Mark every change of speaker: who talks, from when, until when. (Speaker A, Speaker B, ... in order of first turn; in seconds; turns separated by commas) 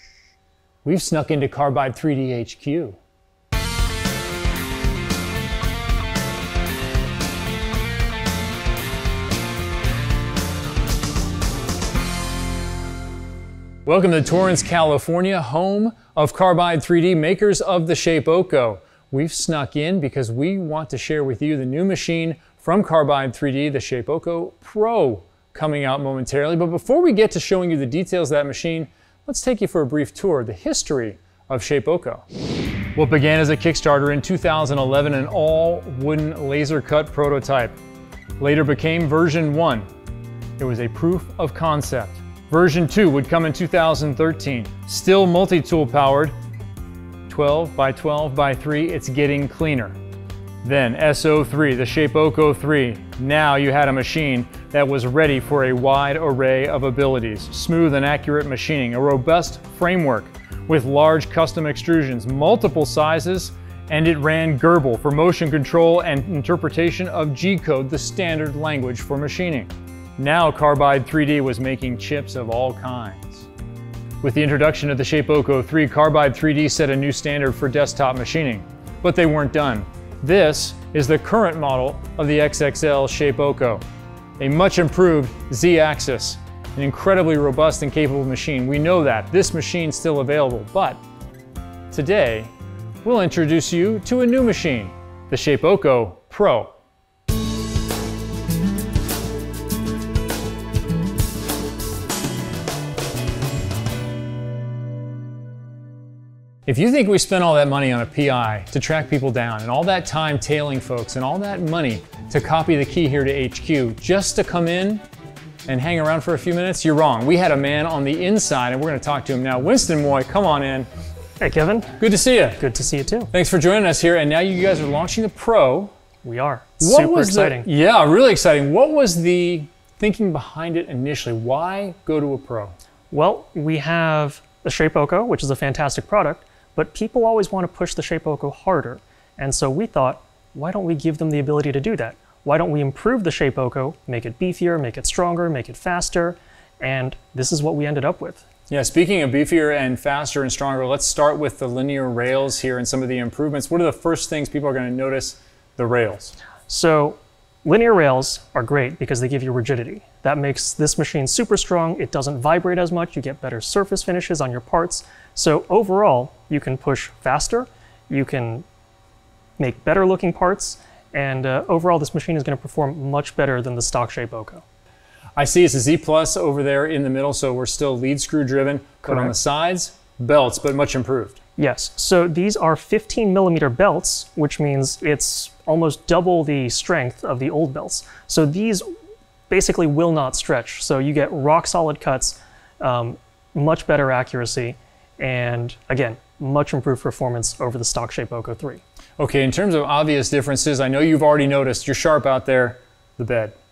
Speaker A: 0.8-3.0, Speaker A: 13.9-32.2, Speaker A: 33.0-37.8, Speaker A: 38.4-39.9, Speaker A: 40.6-46.3, Speaker A: 47.3-50.0, Speaker A: 50.6-73.5, Speaker A: 74.2-83.8, Speaker A: 84.4-91.0, Speaker A: 91.9-92.5, Speaker A: 93.0-96.7, Speaker A: 106.7-115.0, Speaker A: 115.7-120.9, Speaker B: 121.4-122.0, Speaker A: 122.0-122.6, Speaker B: 122.6-123.3, Speaker A: 123.3-125.9, Speaker B: 126.2-127.7, Speaker A: 126.8-132.8, Speaker B: 133.1-148.4, Speaker A: 148.7-156.3, Speaker B: 156.7-168.7, Speaker B: 169.6-174.6, Speaker A: 175.4-181.4, Speaker B: 179.1-179.3, Speaker B: 181.6-188.9, Speaker B: 189.5-198.8, Speaker A: 199.2-203.6